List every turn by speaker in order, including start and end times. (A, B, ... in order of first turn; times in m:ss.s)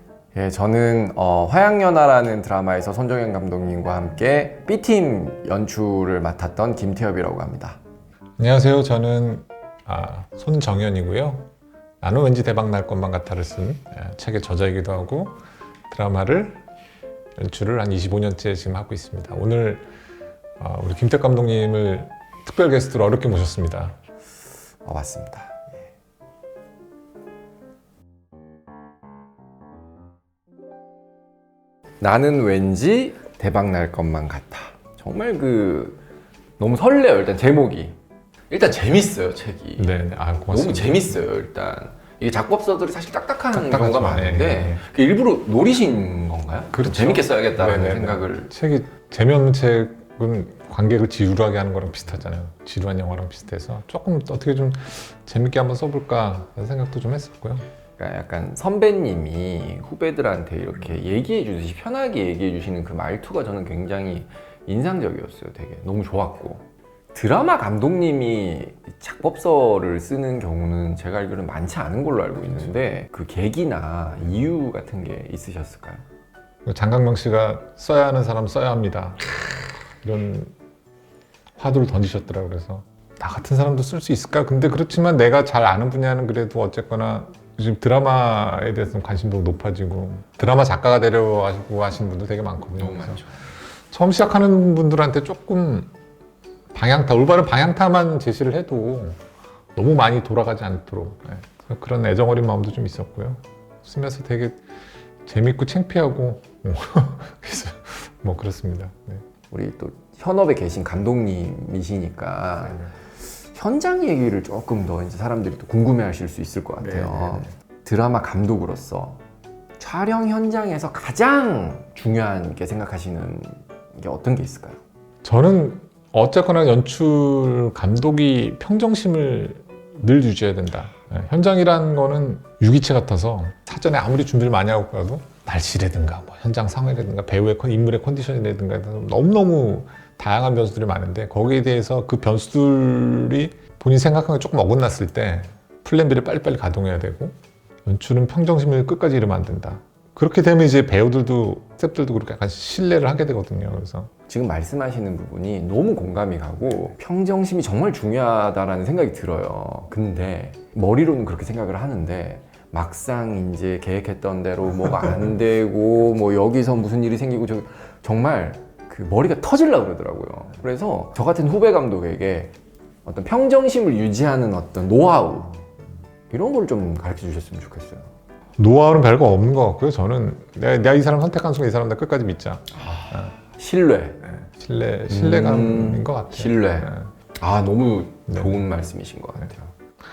0:00.3-0:07.8 A
0:08.4-0:11.5 B
0:12.0-0:15.4 B
0:15.9-0:16.6 B
0:17.4-0:19.9 B
0:20.6-0:23.9 B
0:24.8-0:25.7 A
0:32.0-0:36.0 A
0:36.6-0:38.0 A
0:38.5-0:48.5 A
0:39.8-0:41.2 B
0:43.5-0:44.8 B
0:46.7-0:57.7 B
0:58.0-1:16.0 A
1:16.6-1:19.2 B
1:20.0-1:20.5 B
1:21.6-1:33.2 B
1:32.8-1:33.5 A
1:33.9-1:35.9 B
1:36.7-1:39.2 B
1:39.7-1:44.6 B
1:45.2-1:49.2 B
1:49.5-1:59.2 A
1:56.8-1:57.5 B
1:59.8-2:04.8 A
2:05.2-2:34.1 B
2:34.3-2:52.5 A
2:53.0-2:55.6 A
2:56.3-2:58.1 A
2:58.6-3:03.3 B
3:02.7-3:04.3 A
3:04.3-3:07.1 B
3:05.1-3:09.7 A
3:08.3-3:08.6 B